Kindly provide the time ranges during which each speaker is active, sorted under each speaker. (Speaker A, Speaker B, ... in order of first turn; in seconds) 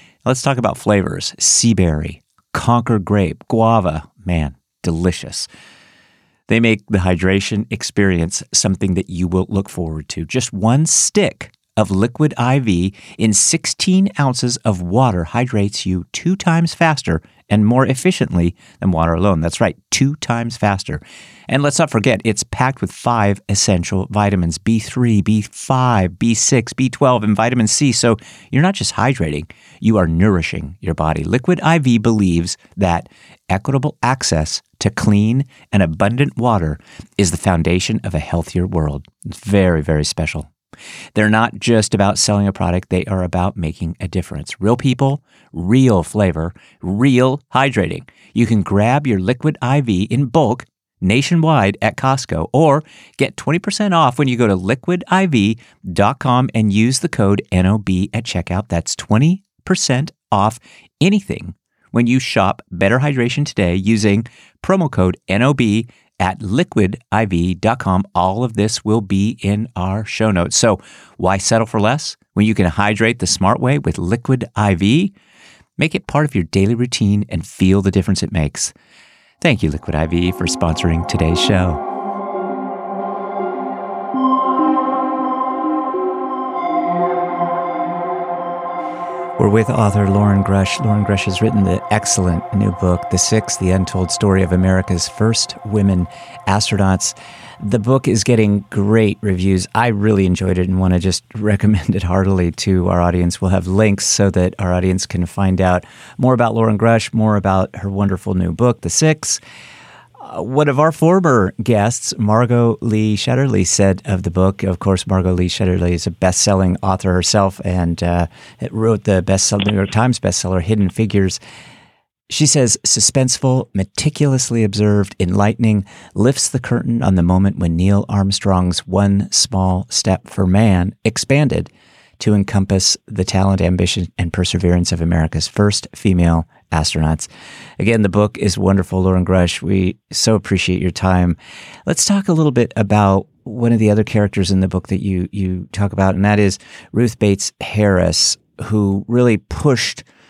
Speaker A: 0.2-5.5, 6.5-40.5, 41.1-75.1, 75.8-78.7, 79.4-81.8, 89.4-109.4, 110.2-121.4, 122.3-150.1